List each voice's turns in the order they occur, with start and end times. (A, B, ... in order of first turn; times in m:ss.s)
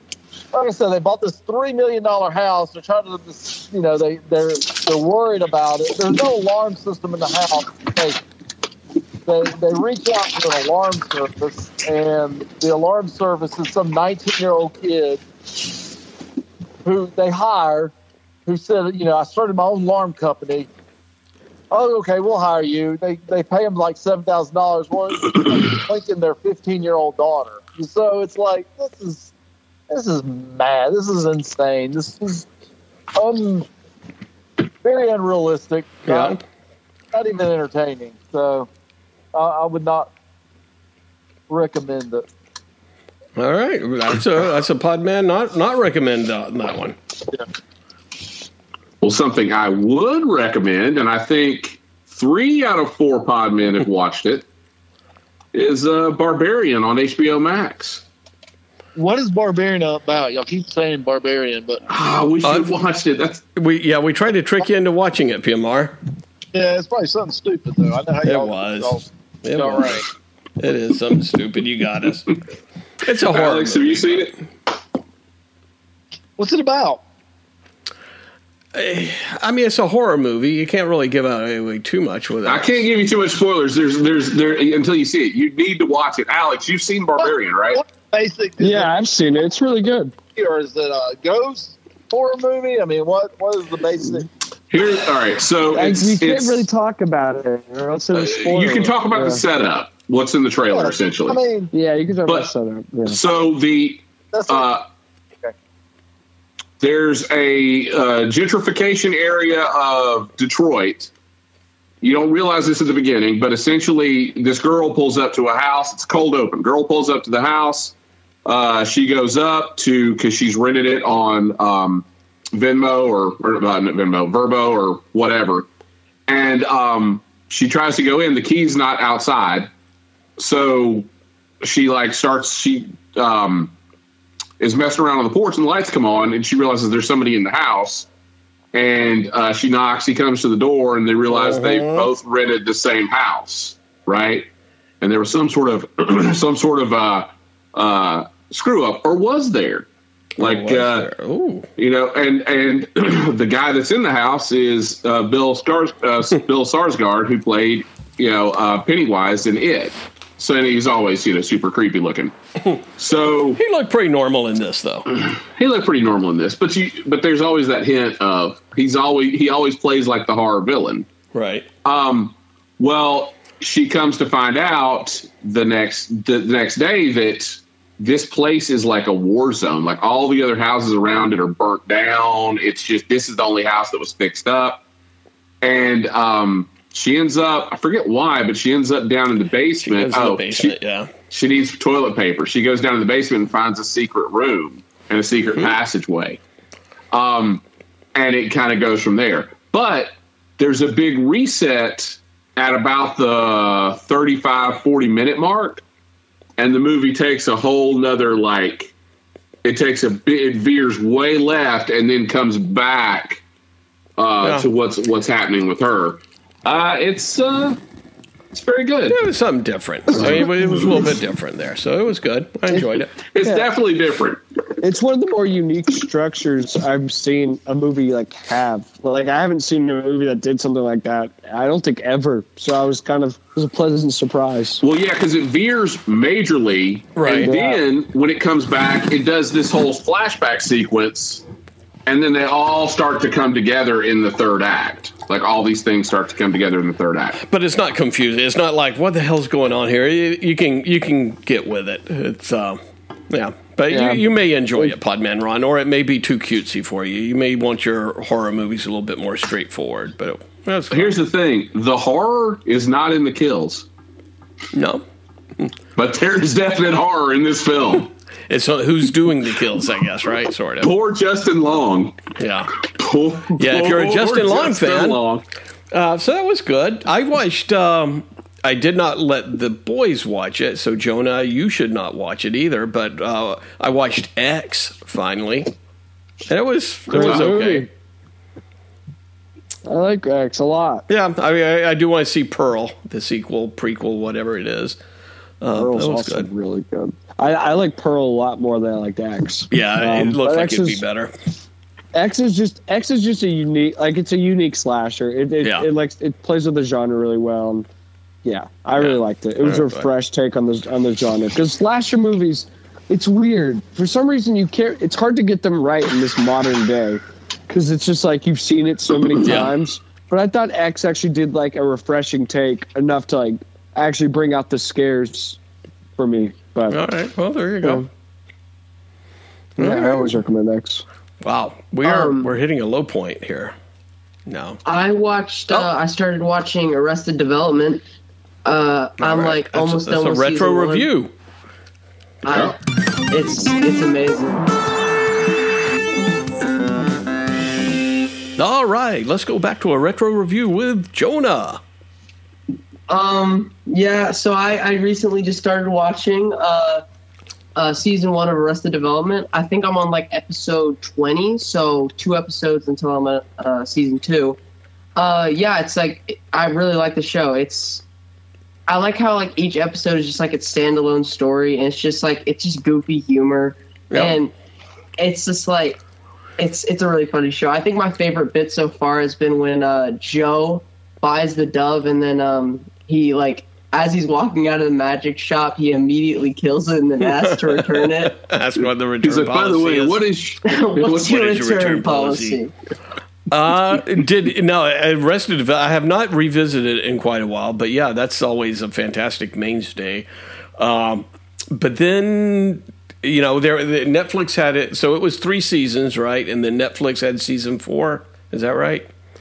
0:00.5-0:08.2 A
0:09.2-0:15.2 A
0:16.8-0:17.9 A
0:18.5-0:20.7 A
0:21.7-0:29.3 A
0:29.9-0:32.5 A
0:33.2-0:33.7 A
0:34.8-0:36.4 A
0:36.1-0:36.4 B
0:37.1-0:38.7 A
0:39.3-0:40.1 A
0:41.5-0:42.3 A
0:43.4-0:47.0 B
0:49.0-0:54.4 C
0:55.5-0:58.0 C
0:59.0-1:01.8 A
1:01.9-1:03.4 C
1:02.4-1:02.8 B
1:03.6-1:06.0 B
1:06.5-1:10.1 A
1:08.2-1:10.0 B
1:10.6-1:12.4 B
1:13.0-1:14.1 B
1:13.3-1:14.3 C
1:16.4-1:17.0 A
1:18.7-1:22.9 B
1:22.4-1:27.8 C
1:27.2-1:28.9 A
1:28.6-1:30.1 D
1:30.4-1:34.3 A
1:34.7-1:36.6 C
1:35.7-1:39.4 D
1:38.1-1:41.4 C
1:40.7-1:41.7 A
1:41.7-1:43.2 D
1:43.1-1:44.8 C
1:44.3-1:44.7 A
1:46.8-1:51.1 C
1:52.0-1:57.9 C
1:58.4-2:05.7 C
2:06.3-2:09.7 C
2:10.4-2:11.1 C
2:11.6-2:13.7 C
2:14.6-2:18.1 C
2:18.7-2:24.5 C
2:21.3-2:22.1 B
2:25.0-2:29.9 C
2:30.4-2:31.7 B
2:30.4-2:31.1 C
2:31.8-2:43.6 C
2:43.6-2:45.1 B
2:45.1-2:51.1 C
2:51.3-2:51.7 B
2:51.8-3:04.8 C
3:05.6-3:10.7 C
3:09.8-3:11.1 B
3:11.3-3:16.4 C
3:17.1-3:17.6 C
3:18.2-3:25.8 C
3:26.6-3:28.9 C
3:29.6-3:33.4 C
3:34.2-3:37.8 C
3:34.4-3:34.7 B
3:38.5-3:39.2 C
3:39.1-3:43.1 B
3:43.2-3:44.4 C
3:43.4-3:43.7 D
3:44.8-3:54.8 D
3:54.8-4:01.4 C
3:57.2-3:57.5 B
3:57.4-3:57.8 D
4:02.1-4:07.4 C
4:07.4-4:21.2 B
4:13.9-4:14.2 D
4:20.9-4:23.9 C
4:24.7-4:25.0 B
4:26.0-4:28.1 C
4:28.5-4:30.9 B
4:30.8-4:32.2 C
4:32.4-4:32.7 B
4:32.9-4:35.4 C
4:33.6-4:35.2 B
4:35.9-4:45.7 B
4:46.5-4:47.9 B
4:47.1-4:47.9 D
4:49.9-4:51.1 D
4:51.1-4:55.0 B
4:55.6-4:56.5 B
4:55.7-5:01.0 D
4:59.7-5:01.3 B
5:02.1-5:07.9 D
5:05.6-5:05.9 B
5:08.4-5:25.6 D
5:09.0-5:10.1 B
5:19.4-5:19.7 B
5:26.2-5:27.0 D
5:26.9-5:28.1 B
5:29.8-5:30.3 B
5:29.8-5:31.0 D
5:31.4-5:33.8 B
5:32.0-5:32.5 E
5:34.5-5:34.8 B
5:34.8-5:38.0 E
5:38.6-5:41.1 E
5:39.2-5:41.3 B
5:42.4-5:42.8 E
5:42.5-5:42.8 C
5:43.3-5:44.7 E
5:48.6-5:51.8 B
5:53.1-5:57.0 E
5:57.8-6:04.6 E
6:05.2-6:08.0 E
6:08.9-6:14.5 E
6:14.1-6:14.4 B
6:15.2-6:16.0 E
6:16.6-6:28.4 E
6:27.3-6:30.2 B
6:29.2-6:31.4 C
6:30.6-6:32.7 E
6:31.1-6:32.6 B
6:33.5-6:40.3 B
6:40.8-6:49.1 B